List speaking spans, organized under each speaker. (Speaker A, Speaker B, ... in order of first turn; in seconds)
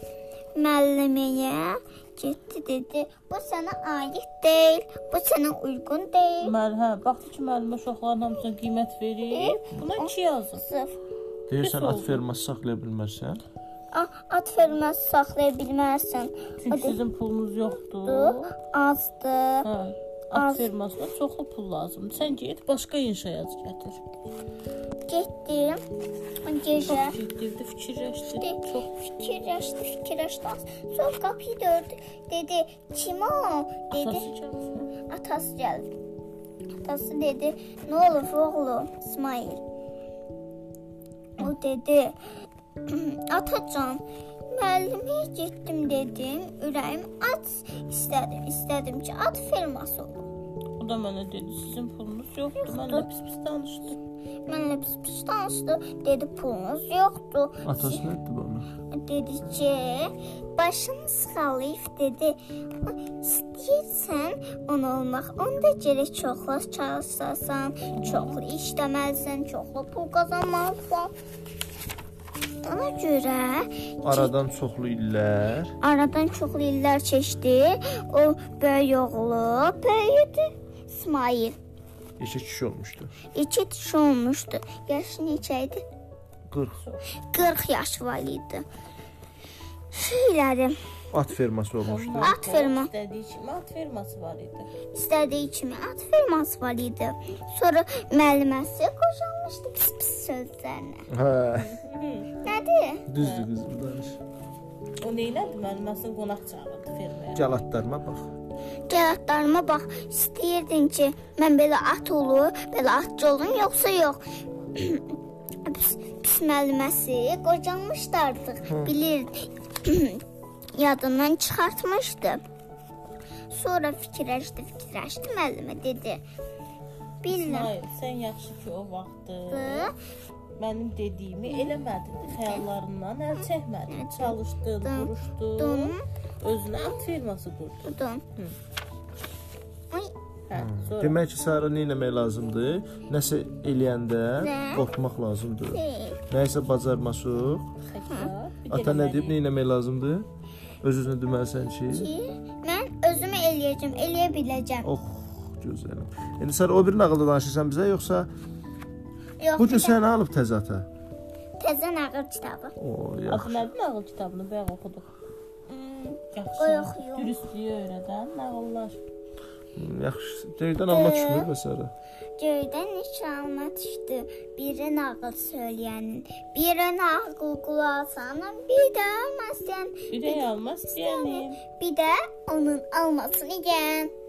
Speaker A: 0.5-6.5, 9.3-10.9, 13.9-17.0, 18.0-19.7, 20.3-20.7, 25.1-25.8, 26.4-27.2, 28.3-34.3, 35.1-35.9, 36.8-39.6, 41.4-42.1, 42.9-50.3, 52.5-53.1, 54.5-58.0, 58.9-71.1, 72.6-74.3, 75.8-81.6, 83.3-85.8, 87.3-88.6, 89.9-90.8, 92.2-92.9, 94.9-101.1, 102.4-103.1, 108.9-114.2, 114.7-115.1, 115.6-120.2, 120.7-122.4, 123.5-126.2, 127.2-127.7, 129.5-129.9, 132.4-132.6, 133.9-136.0, 137.8-138.2, 144.4-144.8, 145.7-146.2, 151.9-154.9, 159.4-160.0, 161.6-162.7, 165.7-167.3, 170.9-171.5, 172.4-184.1
Speaker B: 6.4-10.6, 11.6-12.2, 16.6-18.5, 19.6-24.0, 26.8-28.9, 33.9-34.9, 50.8-54.0, 67.9-68.4, 86.8-87.0, 91.8-94.7, 101.5-102.4, 103.2-103.5, 105.0-107.5, 127.3-129.9, 130.6-138.5, 140.5-141.2, 147.9-149.4, 163.3-165.1, 166.3-169.0, 180.1-181.6
Speaker C: 11.5-13.4, 57.6-58.7, 74.0-75.8, 82.2-83.1, 86.5-86.8, 91.1-92.4, 101.1-101.8, 103.1-104.2, 107.3-108.3, 118.7-118.9, 140.5-147.7, 148.7-150.2, 150.8-152.1, 154.8-158.3, 159.6-160.8, 162.8-163.7, 169.8-171.9